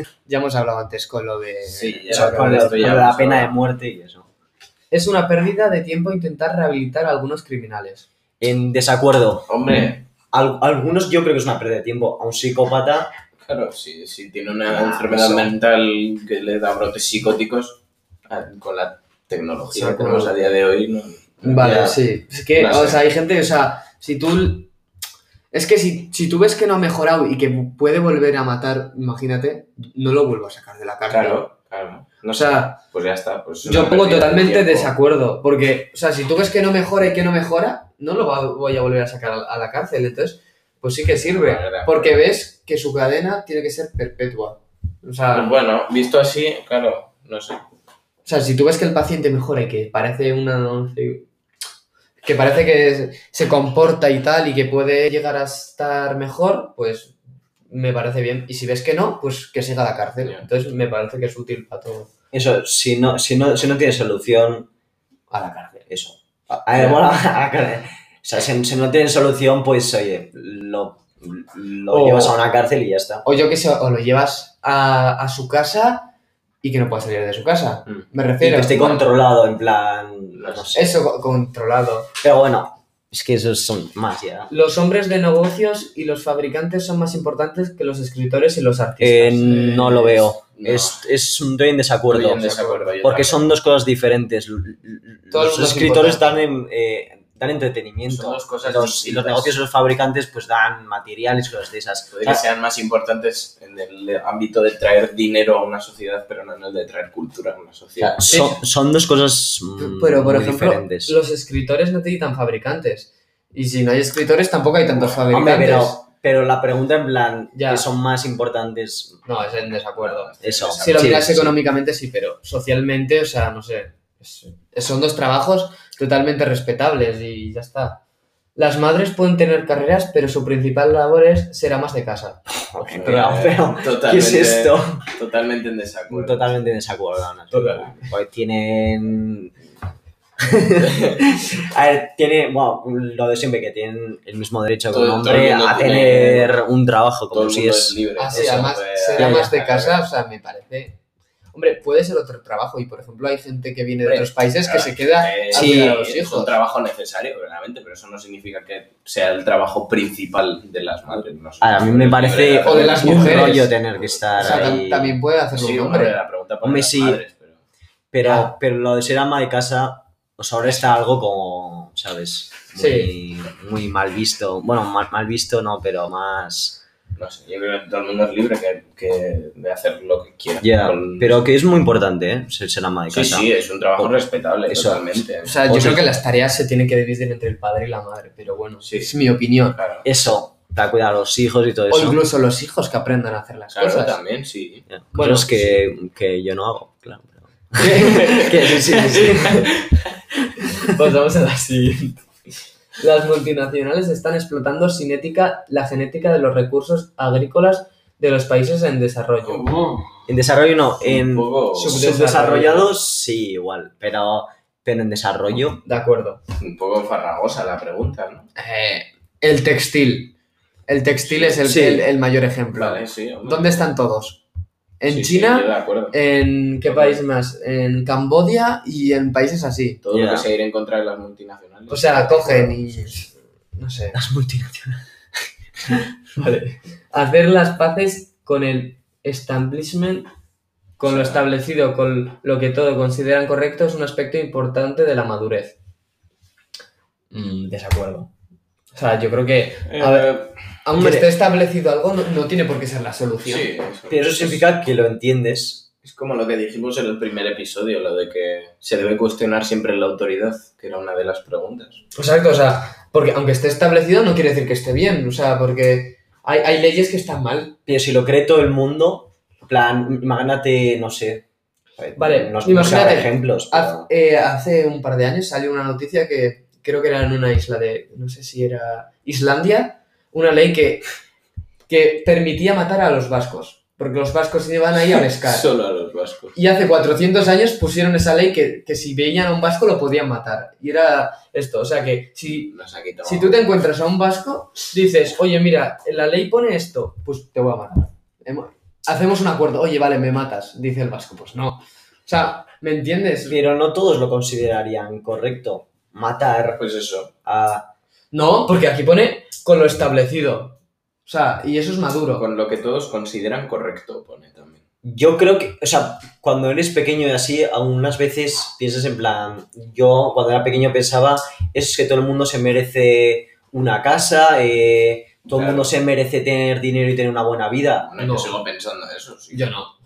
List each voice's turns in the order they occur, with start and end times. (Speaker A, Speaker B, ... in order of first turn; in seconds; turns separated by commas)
Speaker A: 0.2-2.9, Speaker B: 1.6-3.5, Speaker C: 2.1-4.3, Speaker A: 4.9-8.1, Speaker C: 8.4-13.1, Speaker B: 9.5-10.0, Speaker B: 13.4-21.8, Speaker C: 14.7-15.5, Speaker A: 19.7-20.4, Speaker A: 21.4-24.7, Speaker C: 21.6-22.0, Speaker B: 22.5-23.0, Speaker A: 25.5-31.4, Speaker B: 31.1-34.9, Speaker A: 32.3-32.8, Speaker A: 33.6-45.5, Speaker B: 41.0-42.2, Speaker B: 45.3-47.6, Speaker A: 48.2-51.2, Speaker A: 52.2-57.1, Speaker A: 57.7-62.1, Speaker C: 62.3-64.7, Speaker A: 65.3-65.8, Speaker C: 65.9-73.2, Speaker A: 71.9-72.4, Speaker A: 73.2-79.0, Speaker C: 78.4-81.0, Speaker B: 80.3-80.7, Speaker A: 80.7-82.1, Speaker C: 82.2-84.5, Speaker A: 84.5-90.3, Speaker C: 89.0-92.5, Speaker B: 90.5-91.0, Speaker B: 92.1-93.5, Speaker A: 92.3-93.0, Speaker C: 93.0-102.4, Speaker A: 95.3-96.4, Speaker B: 98.1-99.6, Speaker B: 102.1-108.5, Speaker C: 108.0-111.2, Speaker A: 108.3-108.6, Speaker A: 109.8-116.0, Speaker C: 115.3-119.2, Speaker A: 117.5-117.9, Speaker A: 119.2-128.0, Speaker B: 120.0-121.3, Speaker C: 120.4-121.5, Speaker A: 128.6-133.4, Speaker C: 132.7-135.1, Speaker B: 133.0-136.6, Speaker C: 136.1-139.6, Speaker A: 137.5-138.1, Speaker C: 140.4-148.6, Speaker B: 140.8-141.2, Speaker B: 144.9-146.6, Speaker B: 147.3-150.0, Speaker A: 148.2-151.0, Speaker C: 149.2-149.5, Speaker A: 151.5-156.6, Speaker B: 154.0-164.7, Speaker C: 155.5-155.9, Speaker C: 161.6-165.2, Speaker A: 162.6-163.7, Speaker A: 164.4-166.2, Speaker B: 165.5-167.6, Speaker C: 166.6-167.2, Speaker C: 168.1-176.8, Speaker A: 168.2-168.5, Speaker A: 172.7-173.1, Speaker B: 177.2-181.5, Speaker C: 180.6-186.1, Speaker B: 183.1-185.7, Speaker A: 185.4-189.8, Speaker B: 188.8-189.2, Speaker B: 189.7-190.1, Speaker C: 190.0-192.2, Speaker A: 191.9-194.2, Speaker B: 193.7-194.9, Speaker C: 194.9-199.7, Speaker A: 195.1-195.8, Speaker A: 197.8-198.2, Speaker B: 197.8-200.0, Speaker A: 200.8-202.3, Speaker A: 203.0-209.7, Speaker B: 209.4-210.2, Speaker C: 210.3-215.8, Speaker B: 211.0-212.1, Speaker A: 211.7-212.9, Speaker A: 215.8-216.4, Speaker B: 216.6-218.5, Speaker A: 218.6-220.3, Speaker A: 220.9-224.4, Speaker B: 221.2-221.6, Speaker C: 221.6-222.0, Speaker B: 222.7-223.9, Speaker A: 225.0-230.0, Speaker B: 225.1-226.2, Speaker B: 226.8-227.2, Speaker B: 230.0-232.8, Speaker C: 230.1-230.5, Speaker A: 231.9-234.2, Speaker C: 234.1-235.0, Speaker A: 236.3-240.3, Speaker A: 241.0-245.8, Speaker B: 241.0-241.5, Speaker A: 247.3-248.3, Speaker A: 248.9-253.7, Speaker B: 249.8-250.6, Speaker C: 250.9-251.3, Speaker B: 253.4-254.7, Speaker C: 254.1-255.9, Speaker B: 256.0-262.0, Speaker A: 262.1-267.8, Speaker C: 267.9-271.4, Speaker C: 272.0-274.1, Speaker A: 272.1-281.1, Speaker A: 281.9-285.7, Speaker B: 285.4-286.6, Speaker A: 286.5-303.6, Speaker B: 292.5-293.7, Speaker C: 303.4-306.8, Speaker B: 306.8-307.3, Speaker C: 307.4-307.9, Speaker A: 308.3-312.4, Speaker B: 312.4-314.8, Speaker C: 315.0-328.1, Speaker B: 325.5-325.9, Speaker B: 328.1-329.7, Speaker A: 328.2-328.6, Speaker A: 329.5-329.9